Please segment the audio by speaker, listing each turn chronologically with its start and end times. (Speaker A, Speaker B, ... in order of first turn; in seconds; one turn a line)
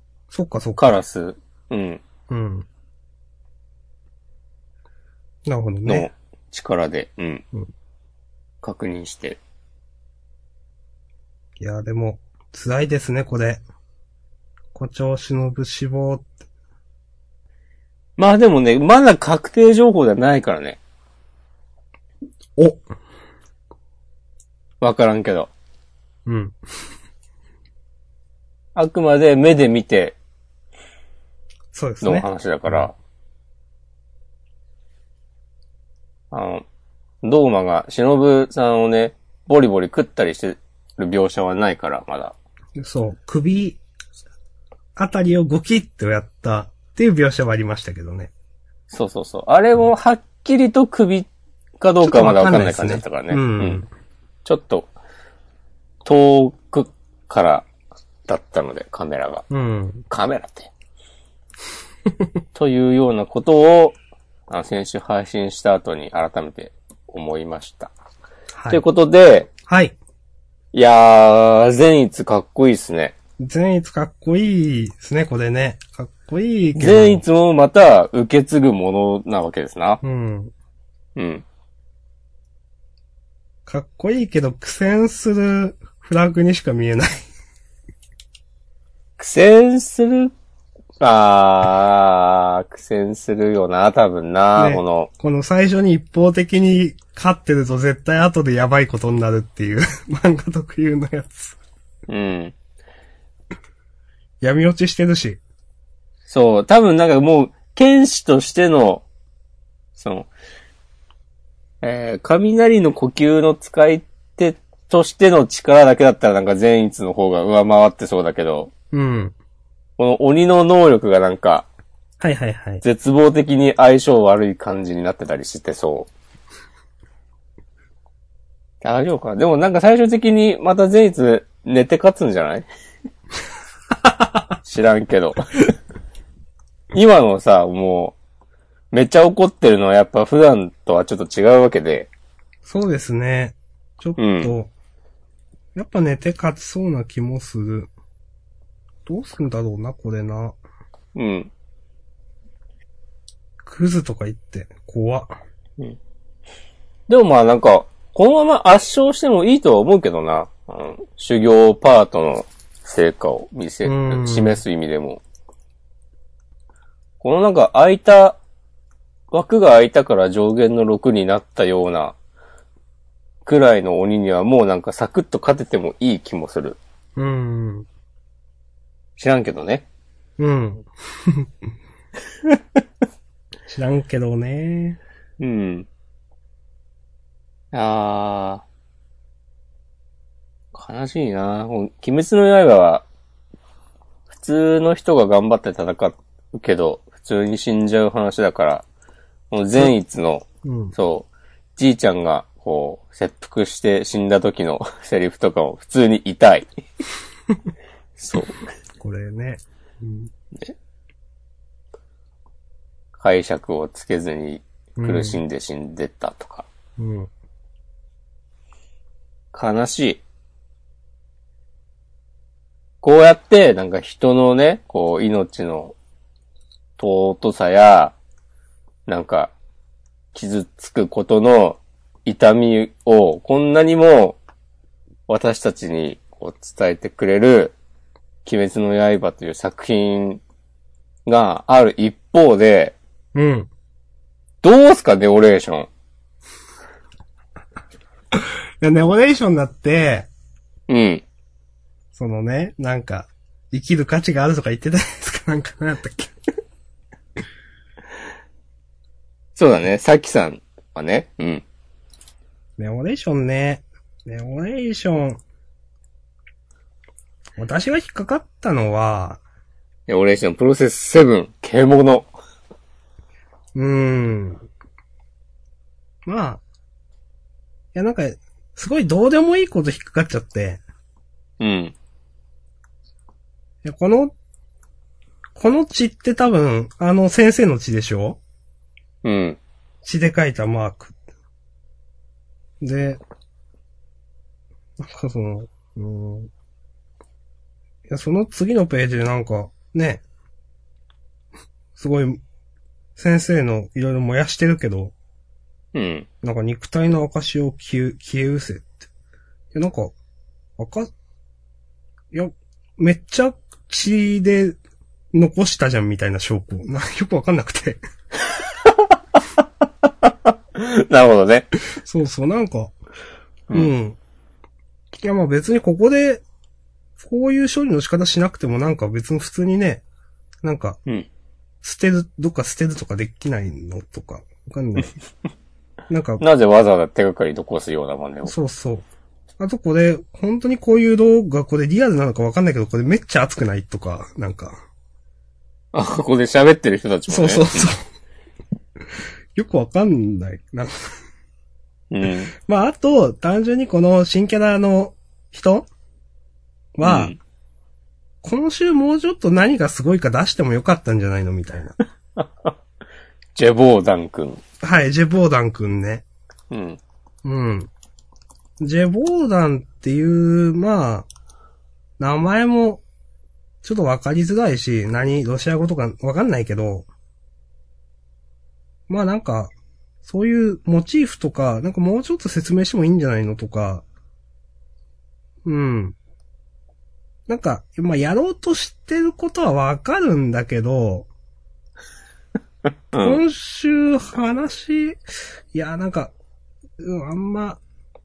Speaker A: 0.3-0.9
Speaker B: 0.8-2.0
Speaker A: 2.3-2.6
Speaker A: 5.5-6.1
Speaker B: 5.8-7.4
Speaker B: 8.6-9.4
Speaker A: 11.6-13.6
Speaker A: 14.7-16.3
Speaker B: 18.2-20.8
Speaker A: 22.6-22.8
Speaker B: 24.8-25.5
Speaker A: 26.2-26.6
Speaker B: 28.8-30.1
Speaker A: 31.7-32.9
Speaker B: 32.0-32.9
Speaker B: 36.3-36.6
Speaker B: 37.2-42.3
Speaker A: 42.8-43.8
Speaker A: 45.0-48.3
Speaker B: 48.9-51.3
Speaker B: 51.8-53.8
Speaker A: 52.0-53.9
Speaker B: 54.4-54.9
Speaker B: 56.0-57.6
Speaker B: 58.3-59.4
Speaker A: 59.5-60.0
Speaker B: 60.1-60.7
Speaker B: 62.5-64.0
Speaker B: 64.5-67.9
Speaker A: 68.5-68.8
Speaker B: 68.7-69.5
Speaker A: 69.7-69.9
Speaker B: 70.7-73.1
Speaker A: 73.4-77.2
Speaker B: 76.7-80.0
Speaker A: 80.0-80.5
Speaker B: 81.2-81.4
Speaker A: 83.7-87.2
Speaker B: 89.2-90.3
Speaker B: 91.0-95.1
Speaker A: 94.5-101.6
Speaker B: 102.1-102.5
Speaker A: 104.4-105.4
Speaker B: 106.3-109.0
Speaker B: 110.0-110.3
Speaker B: 111.8-118.7
Speaker A: 118.9-119.3
Speaker B: 120.0-121.7
Speaker A: 122.2-122.8
Speaker B: 122.8-126.1
Speaker B: 128.8-132.7
Speaker B: 134.6-135.4
Speaker B: 136.9-138.1
Speaker B: 138.9-142.1
Speaker A: 142.6-144.7
Speaker B: 144.2-144.5
Speaker A: 145.7-147.9
Speaker A: 149.1-150.6
Speaker B: 151.1-151.5
Speaker A: 153.6-155.4
Speaker B: 157.1-165.2
Speaker A: 163.8-164.6
Speaker B: 167.2-168.4
Speaker B: 169.3-172.1
Speaker B: 173.4-176.8
Speaker A: 177.2-177.8
Speaker B: 179.2-179.8
Speaker A: 180.4-181.5
Speaker A: 183.7-185.0
Speaker B: 185.4-185.9
Speaker B: 187.7-188.6
Speaker B: 190.7-193.0
Speaker B: 194.3-198.8
Speaker B: 199.5-206.7
Speaker A: 200.6-200.9
Speaker B: 208.2-208.6
Speaker A: 209.0-210.3
Speaker B: 213.2-216.7
Speaker A: 215.0-215.4
Speaker A: 217.0-217.3
Speaker B: 219.5-220.2
Speaker B: 223.0-225.9
Speaker B: 227.0-228.1
Speaker B: 229.1-229.5
Speaker B: 230.3-234.4
Speaker B: 235.3-237.7
Speaker B: 238.4-240.4
Speaker B: 241.2-242.9
Speaker A: 243.3-243.7
Speaker B: 244.6-245.9
Speaker A: 248.3-250.3
Speaker B: 250.9-251.2
Speaker A: 252.1-256.3
Speaker B: 259.6-261.6
Speaker A: 262.8-265.4
Speaker A: 267.6-269.4
Speaker B: 270.1-272.3
Speaker A: 273.7-274.6
Speaker A: 276.2-276.6
Speaker A: 277.9-280.8
Speaker B: 281.6-281.9
Speaker A: 283.8-284.3
Speaker A: 285.6-288.4
Speaker B: 289.2-289.6
Speaker A: 290.0-291.1
Speaker A: 292.8-293.2
Speaker A: 295.0-296.5
Speaker A: 298.1-300.2
Speaker A: 301.9-302.4
Speaker A: 303.1-305.1
Speaker B: 305.9-306.3
Speaker A: 306.4-308.9
Speaker A: 309.7-310.1
Speaker A: 310.8-311.1
Speaker A: 312.3-314.8
Speaker A: 315.3-318.0
Speaker B: 320.2-321.7
Speaker A: 322.0-322.9
Speaker A: 323.7-324.2
Speaker A: 325.2-326.4
Speaker A: 327.2-330.0
Speaker A: 330.6-331.0
Speaker A: 331.8-335.1
Speaker A: 336.1-336.4
Speaker B: 336.4-338.5
Speaker A: 338.4-339.0
Speaker A: 339.6-344.8
Speaker B: 345.9-347.9
Speaker A: 347.3-348.0
Speaker A: 349.5-350.9
Speaker B: 352.1-352.5
Speaker A: 352.6-355.9
Speaker A: 357.0-357.3
Speaker B: 357.0-357.4
Speaker A: 358.4-361.9
Speaker B: 362.4-362.7
Speaker B: 363.5-364.6
Speaker A: 364.8-366.2
Speaker B: 366.7-367.0
Speaker A: 367.4-367.9
Speaker A: 368.8-371.2
Speaker A: 372.2-373.0
Speaker A: 373.8-377.1
Speaker A: 379.1-379.7
Speaker A: 380.2-384.0
Speaker A: 385.6-386.1
Speaker A: 387.5-391.3
Speaker B: 393.1-393.4
Speaker A: 393.2-395.2
Speaker A: 395.7-396.3
Speaker A: 397.0-397.8